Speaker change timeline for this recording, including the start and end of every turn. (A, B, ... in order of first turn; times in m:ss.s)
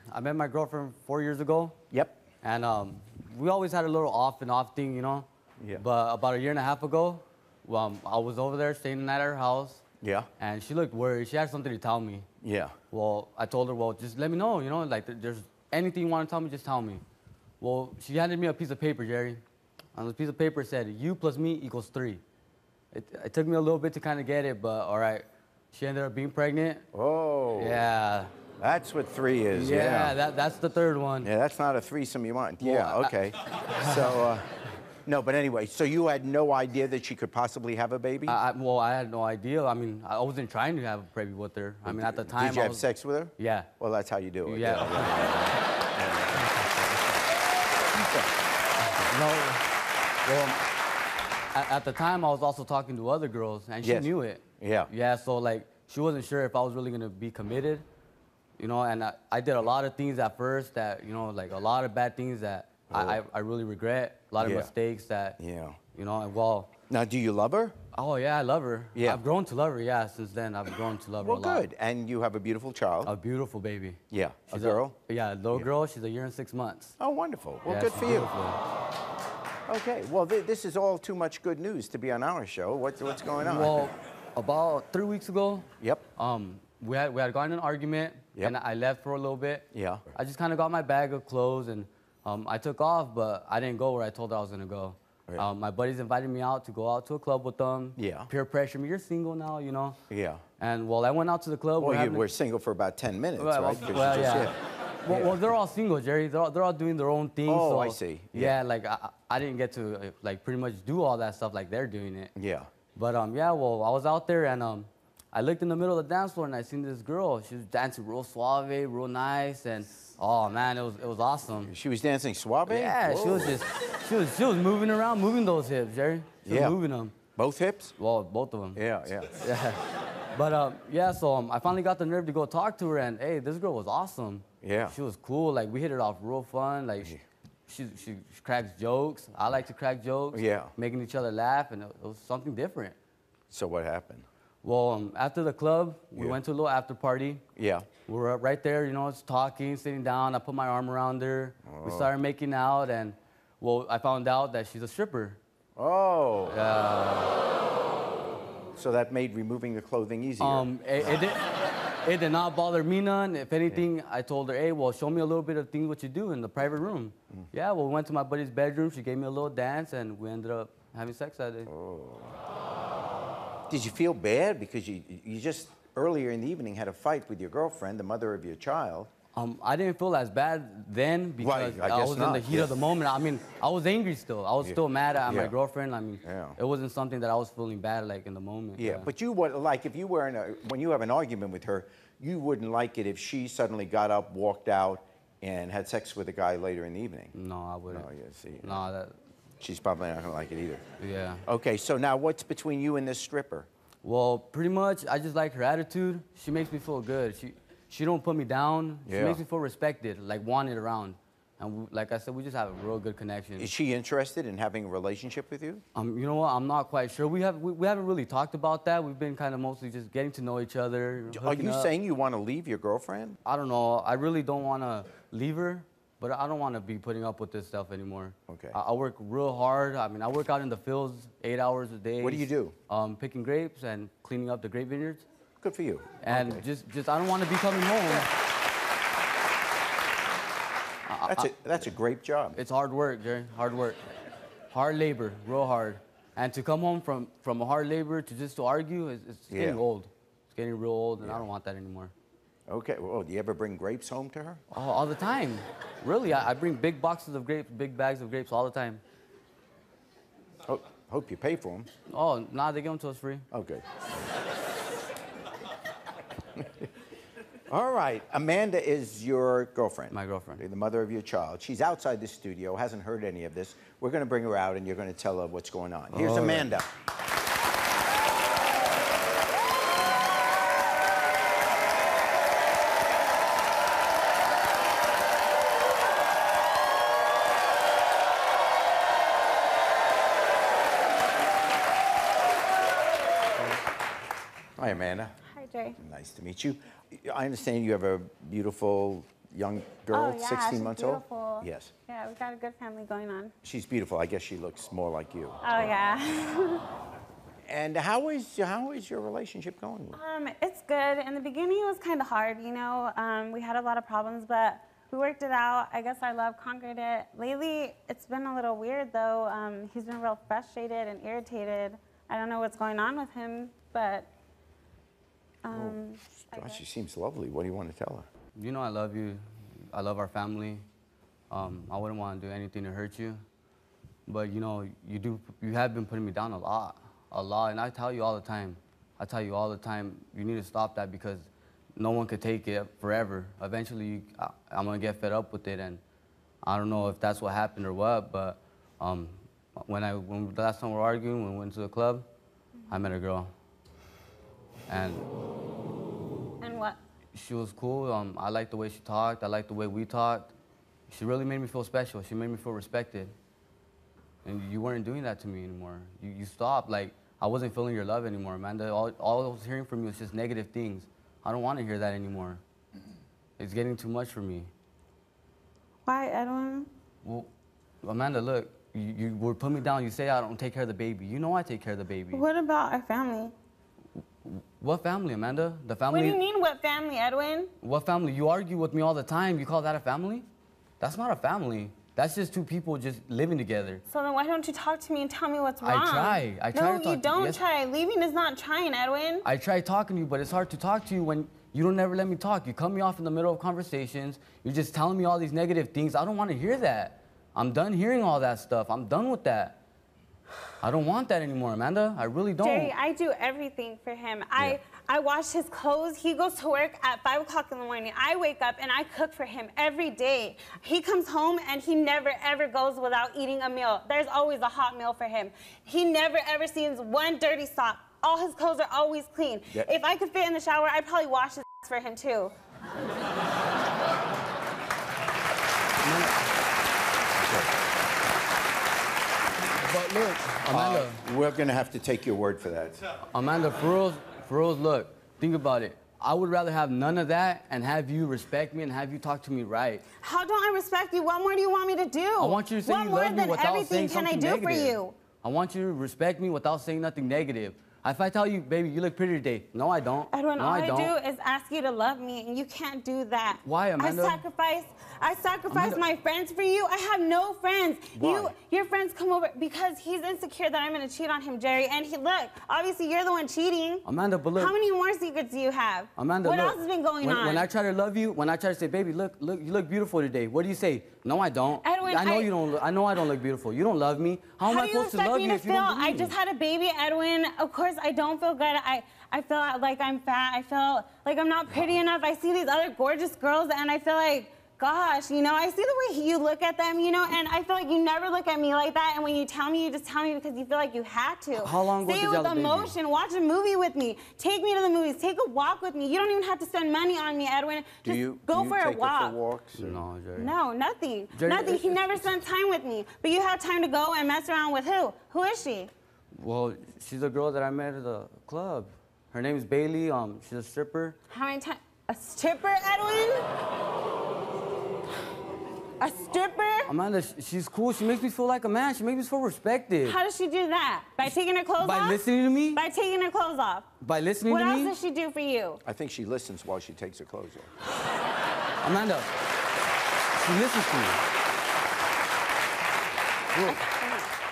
0:00.1-0:01.8 A
0:01.9-0:02.2 B
0:02.4-0:09.8 A
0:10.0-0:10.3 B
0:10.4-0:12.3 A
0:12.4-0:12.8 B
0:12.9-0:17.0 A
0:17.6-0:19.4 A
0:20.0-0:22.2 A
0:22.9-0:26.9 A
0:26.9-0:27.9 B
0:27.5-0:28.3 A
0:28.6-0:30.2 B
0:29.5-0:31.3 A
0:31.2-0:34.5 B
0:32.6-0:33.1 A
0:33.8-0:34.2 A
0:35.0-0:38.4 B
0:38.3-0:42.9 A
0:41.8-0:46.5 B
0:43.4-0:43.7 A
0:44.4-0:45.2 A
0:47.9-0:48.3 B
0:48.9-0:49.6 A
0:50.2-0:50.6 A
0:51.5-0:57.8 A
0:53.8-0:54.9 B
0:58.6-1:05.4 A
1:02.9-1:03.2 B
1:04.4-1:04.7 B
1:05.4-1:05.8 B
1:05.9-1:06.7 A
1:06.9-1:07.8 B
1:08.0-1:11.7 A
1:08.9-1:09.2 B
1:11.2-1:13.1 B
1:13.0-1:14.0 A
1:14.1-1:15.0 B
1:14.5-1:16.9 A
1:17.0-1:18.3 B
1:17.6-1:18.6 A
1:19.7-1:23.9 B
1:23.4-1:40.0 A
1:29.7-1:30.1 B
1:38.0-1:38.3 B
1:40.1-1:40.4 B
1:40.6-1:42.3 A
1:41.8-1:45.5 B
1:43.4-1:52.3 A
1:47.4-1:48.6 B
1:52.4-1:52.7 B
1:53.0-2:01.7 A
2:01.6-2:03.6 B
2:02.7-2:07.2 A
2:06.4-2:06.8 B
2:07.4-2:08.0 B
2:08.0-2:08.8 A
2:08.7-2:09.4 B
2:09.4-2:09.8 A
2:10.4-2:17.2 A
2:14.6-2:15.0 B
2:17.7-2:23.0 A
2:20.3-2:20.7 B
2:23.5-2:24.3 B
2:24.6-2:27.4 A
2:27.6-2:27.9 B
2:28.0-2:35.4 A
2:31.6-2:32.1 B
2:35.8-2:36.6 B
2:36.5-2:37.4 A
2:38.8-2:40.7 B
2:40.4-2:41.5 A
2:42.0-2:51.7 A
2:51.7-2:52.3 B
2:53.7-2:59.1 B
2:59.4-3:09.1 A
3:01.4-3:02.8 B
3:04.6-3:05.6 B
3:06.2-3:06.6 B
3:08.8-3:17.3 B
3:17.3-3:18.1 A
3:17.9-3:18.8 B
3:18.6-3:19.2 A
3:19.6-3:20.8 B
3:21.0-3:21.4 A
3:21.5-3:23.7 B
3:24.0-3:33.7 A
3:29.1-3:29.4 B
3:33.6-3:35.8 B
3:36.0-3:41.9 A
3:41.3-3:43.4 B
3:43.4-3:55.2 A
3:48.5-3:48.8 B
3:52.2-3:52.8 B
3:55.6-3:56.6 B
3:56.2-3:58.3 A
4:01.1-4:01.5 A
4:01.3-4:02.6 B
4:02.5-4:04.0 A
4:04.7-4:12.1 A
4:09.5-4:09.8 B
4:12.7-4:14.6 B
4:14.7-4:19.0 A
4:20.7-4:21.9 B
4:22.1-4:23.5 A
4:23.5-4:23.8 B
4:27.7-4:36.9 B
4:30.1-4:30.6 A
4:36.1-4:36.7 A
4:54.8-4:55.4 B
4:55.5-4:56.0 C
4:56.0-5:01.9 B
5:00.1-5:03.5 C
5:03.6-5:05.6 B
5:05.6-5:06.8 C
5:07.7-5:10.2 B
5:10.1-5:24.3 C
5:25.6-5:26.8 C
5:25.7-5:28.3 B
5:28.6-5:30.8 A
5:31.5-5:33.4 A
5:34.3-5:46.0 A
5:46.6-5:52.2 A
5:52.9-5:53.5 A
5:54.9-5:55.3 A
5:56.6-5:57.0 C
5:57.3-6:00.5 A
6:01.1-6:03.3 A
6:04.4-6:12.6 A
6:13.6-6:14.7 A
6:16.1-6:16.9 C
6:17.2-6:17.5 A
6:18.0-6:22.4 A
6:22.3-6:23.5 C
6:24.4-6:26.4 A
6:26.1-6:27.7 C
6:27.8-6:30.4 A
6:31.0-6:34.0 A
6:34.1-6:39.4 C
6:35.8-6:37.6 A
6:39.4-6:49.8 A
6:50.8-6:52.9 A
6:52.6-7:12.5 C
7:16.0-7:16.4 A
7:17.4-7:17.7 B
7:19.8-7:21.2 A
7:20.7-7:23.0 B
7:23.3-7:30.0 A
7:30.2-7:35.2 C
7:32.4-7:41.1 A
7:40.3-7:57.7 C
7:43.6-7:44.4 A
7:45.7-7:46.0 A
7:48.1-7:48.5 A
7:54.0-7:54.8 A
7:56.2-8:06.4 A
8:01.8-8:02.5 C
8:04.6-8:29.4 C
8:21.6-8:23.0 A
8:28.0-8:30.0 B
8:29.8-8:30.5 A
8:30.4-8:35.9 C
8:31.3-8:32.3 A
8:36.3-8:41.2 A
8:41.3-8:43.5 C
8:46.0-8:46.9 C
8:46.9-8:50.2 A
8:50.0-8:52.2 C
8:51.8-8:52.8 A
8:52.7-8:53.9 C
8:54.0-8:54.9 A
8:54.5-8:55.8 C
8:55.8-8:57.7 B
8:58.8-8:59.3 A
9:00.4-9:01.2 A
9:03.5-9:03.8 A
9:03.6-9:04.3 C